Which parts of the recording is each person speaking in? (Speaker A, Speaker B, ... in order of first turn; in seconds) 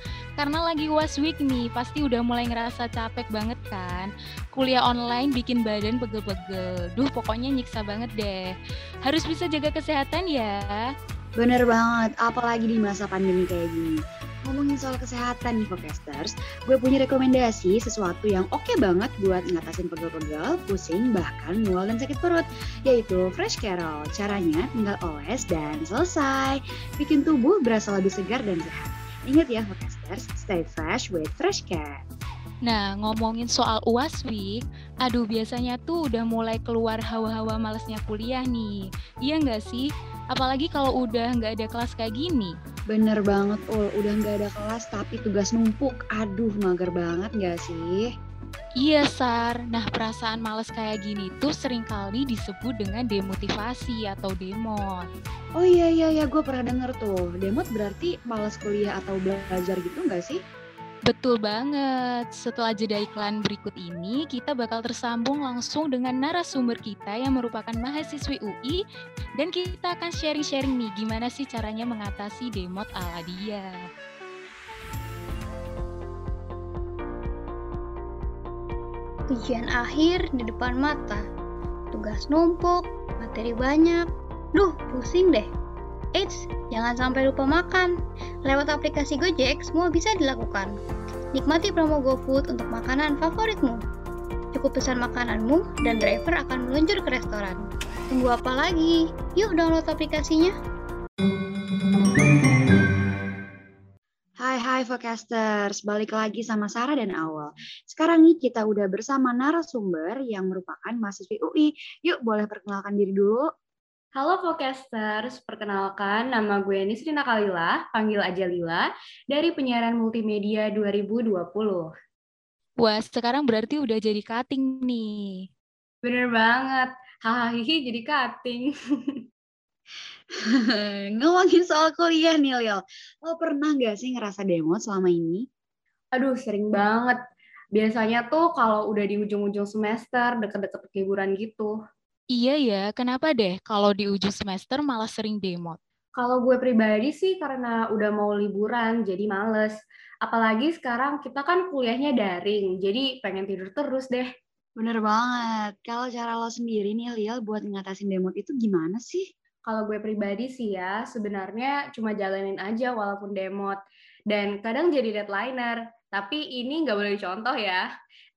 Speaker A: 0.4-8.5, 9.0-10.8, 32.6-42.5, 48.8-55.1, 61.1-68.8, 69.3-73.7, 122.8-125.4, 142.3-145.8
Speaker B: 11.4-32.0, 42.9-48.1, 55.6-60.4, 104.4-113.4, 130.5-135.4, 154.8-159.2
Speaker C: 79.3-81.2, 81.9-85.5, 86.1-87.9, 88.4-90.8, 91.3-93.8, 94.5-100.5
Speaker D: 114.1-121.9, 126.0-129.1, 136.1-137.2, 137.8-141.7, 146.1-154.3, 159.6-163.8, 164.3-167.8